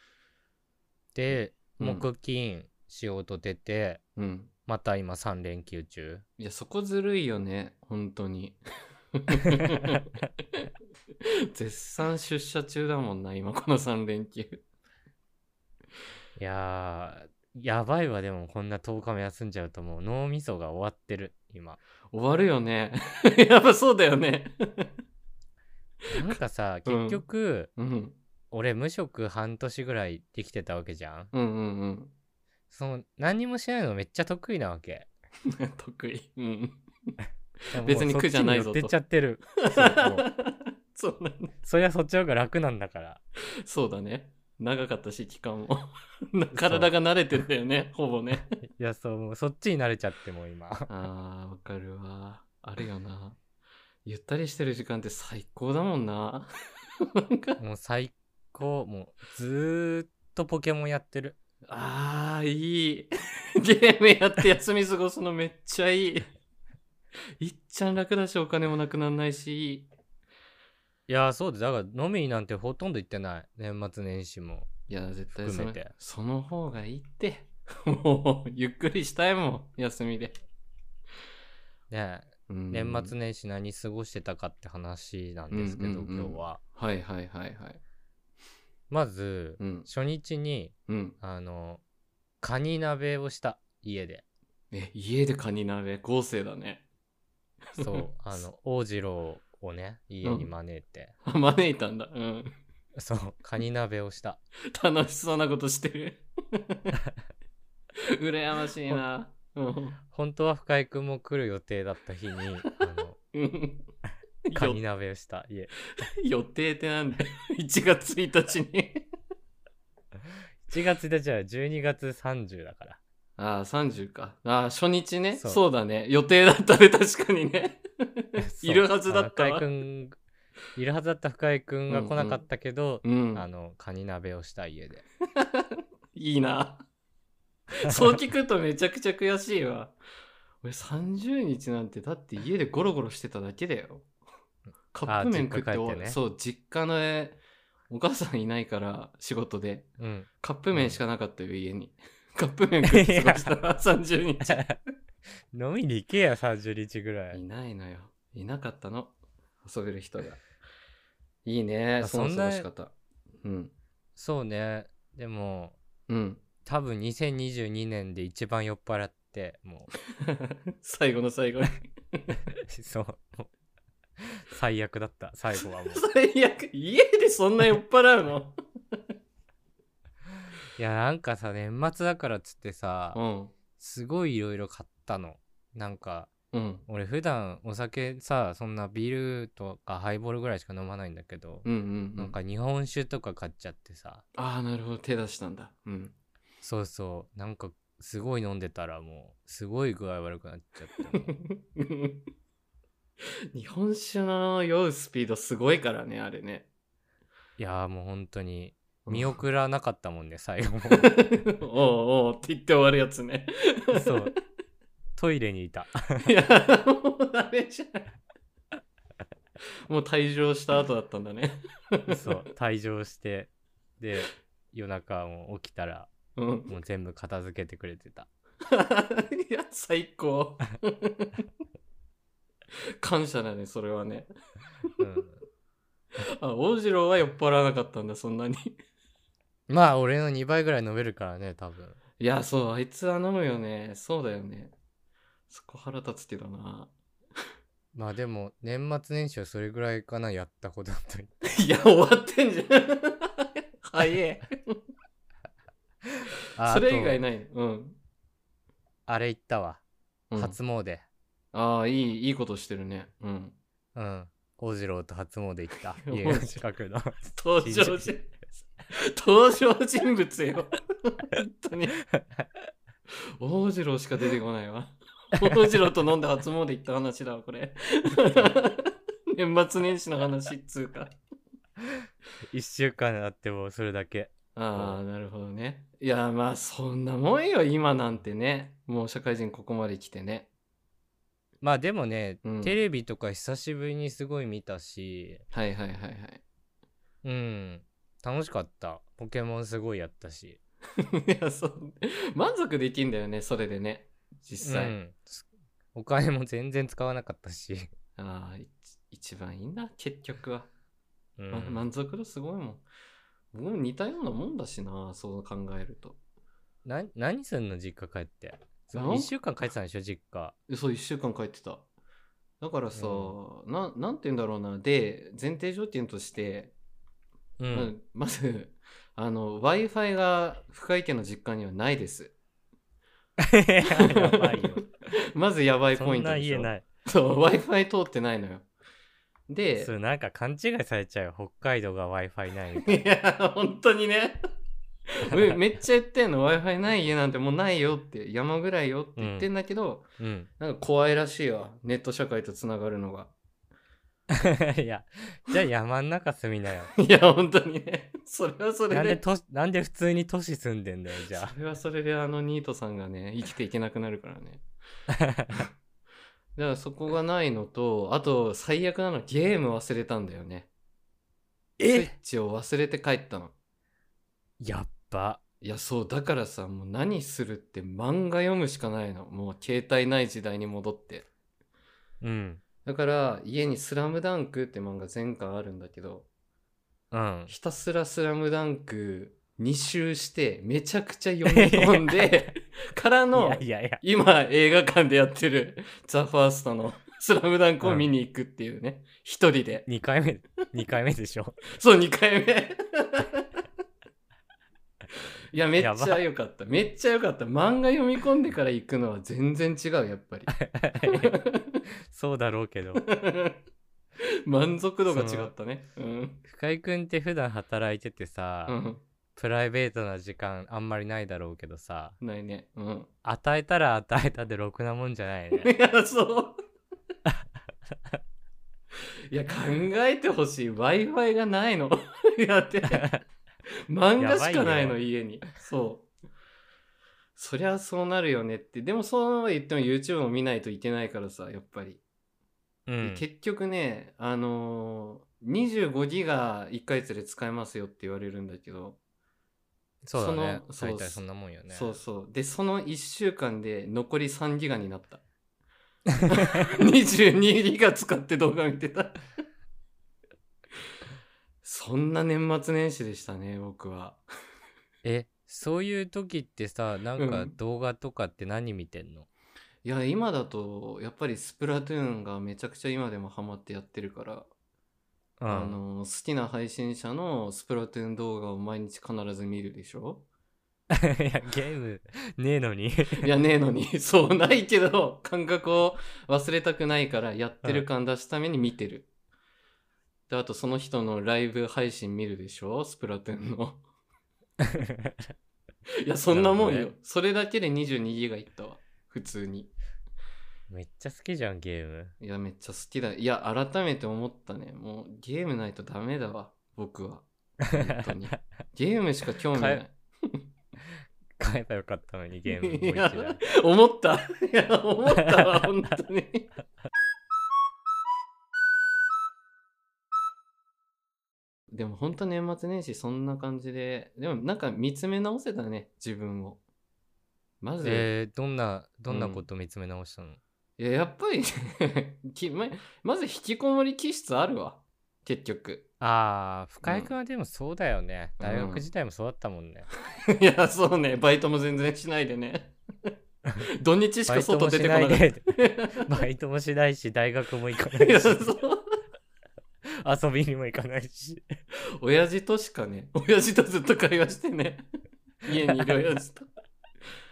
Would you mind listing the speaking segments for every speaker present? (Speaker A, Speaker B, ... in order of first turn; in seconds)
Speaker A: 1.1-4.0, 4.7-6.2, 16.4-21.8, 26.1-27.7, 28.5-31.3, 32.7-35.1, 37.7-40.3, 41.6-43.2, 46.5-46.9, 48.6-50.9, 57.6-61.4, 71.1-74.7, 75.3-75.9, 81.9-86.6, 88.9-91.8, 92.4-94.2, 97.8-101.1, 103.0-104.4, 110.1-113.2, 114.5-115.9, 120.6-123.0, 125.3-125.6, 128.4-130.2, 130.8-135.0, 145.1-146.2, 150.0-151.0, 152.8-153.6, 154.4-154.8, 155.5-157.4, 162.0-162.7, 164.2-165.8, 166.6-169.9, 172.7-173.5, 174.4-176.0, 180.8-183.2, 183.8-186.3, 186.9-194.2, 196.6-201.3, 207.6-211.1, 213.9-214.3, 215.2-216.3, 222.1-226.1, 226.7-228.3, 235.0-235.4, 239.7-242.0, 247.9-251.3, 256.5-257.2, 259.1-259.8, 260.3-261.0, 263.9-268.3, 282.5-285.0, 291.6-295.4, 297.2-300.6, 304.6-307.9, 311.4-311.8, 316.8-320.6, 322.9-323.3, 327.6-327.9, 333.4-334.8, 335.9-336.9, 339.7-343.0, 349.2-349.5, 350.2-350.5, 354.4-356.9, 358.9-361.5, 365.3-365.6, 371.8-372.1, 374.6-375.4, 382.2-382.6, 387.1-387.5, 391.4-392.5, 393.3-394.0, 399.9-401.6, 405.8-406.2, 410.5-411.3, 412.1-413.0, 415.1-415.5, 416.5-418.8, 419.4-422.1, 423.2-425.7, 432.9-433.2, 434.2-435.0, 442.9-443.2, 450.0-452.0, 465.0-469.3, 475.4-475.8, 480.9-483.3, 494.8-495.1, 496.3-496.9, 500.7-502.1, 509.5-509.8, 511.4-513.4, 515.2-515.5, 527.8-530.4, 536.0-539.9, 544.3-545.5, 546.0-548.5, 550.0-551.4
Speaker B: 1.8-2.0, 4.2-4.5, 6.4-8.6, 9.1-10.0, 11.5-14.6, 22.1-24.9, 26.9-27.2, 27.8-28.2, 31.3-32.1, 35.5-36.8, 37.8-38.9, 39.6-41.5, 43.6-48.6, 50.9-53.4, 54.0-56.5, 57.1-57.6, 61.7-66.3, 67.4-69.9, 74.9-80.3, 82.5-83.1, 85.5-87.8, 89.6-89.9, 90.9-91.2, 94.7-96.8, 97.7-98.4, 100.2-100.5, 101.2-102.5, 104.7-106.9, 108.2-110.0, 113.3-113.8, 114.5-114.8, 116.0-119.1, 123.4-129.6, 131.9-132.4, 133.0-133.4, 135.3-136.8, 137.7-139.9, 140.6-144.1, 144.9-149.9, 150.4-154.6, 157.3-160.4, 161.4-163.7, 166.1-166.4, 170.2-172.4, 175.9-178.5, 183.1-183.5, 186.5-186.8, 191.6-192.3, 194.3-196.1, 201.2-202.2, 203.5-206.7, 209.1-209.4, 210.9-214.3, 216.2-218.0, 219.9-222.2, 226.3-226.7, 228.7-231.4, 233.0-234.3, 236.4-238.8, 242.2-244.7, 245.5-246.9, 251.4-254.8, 256.6-258.0, 260.3-260.6, 261.5-263.6, 266.0-266.6, 267.3-268.3, 269.1-272.0, 273.4-281.2, 284.5-290.5, 292.4-292.8, 295.5-296.4, 301.2-304.9, 308.1-310.7, 311.5-312.8, 313.5-316.2, 318.9-319.3, 320.7-321.8, 322.6-326.7, 327.7-332.3, 333.9-338.6, 339.5-339.9, 342.8-344.4, 345.2-350.1, 350.6-353.3, 356.9-359.2, 361.3-364.6, 366.6-370.7, 371.8-373.5, 375.6-381.3, 382.8-386.3, 387.5-399.9, 401.7-403.4, 405.5-410.5, 411.2-411.8, 412.9-413.6, 414.4-416.4, 418.7-419.0, 422.2-423.1, 425.6-426.6, 429.3-433.0, 433.9-436.1, 437.4-442.0, 443.0-449.0, 450.1-455.2, 456.3-459.2, 461.6-464.2, 467.2-467.5, 469.8-474.5, 475.5-480.2, 483.1-489.1, 490.3-493.8, 496.0-499.7, 502.2-510.4, 512.6-516.5, 521.7-526.6, 527.6-528.1, 529.1-529.4, 530.8-535.9, 536.8-537.1, 538.4-538.9, 540.3-542.7, 543.6-546.2, 548.0-548.8, 552.0-554.9, 555.4-556.5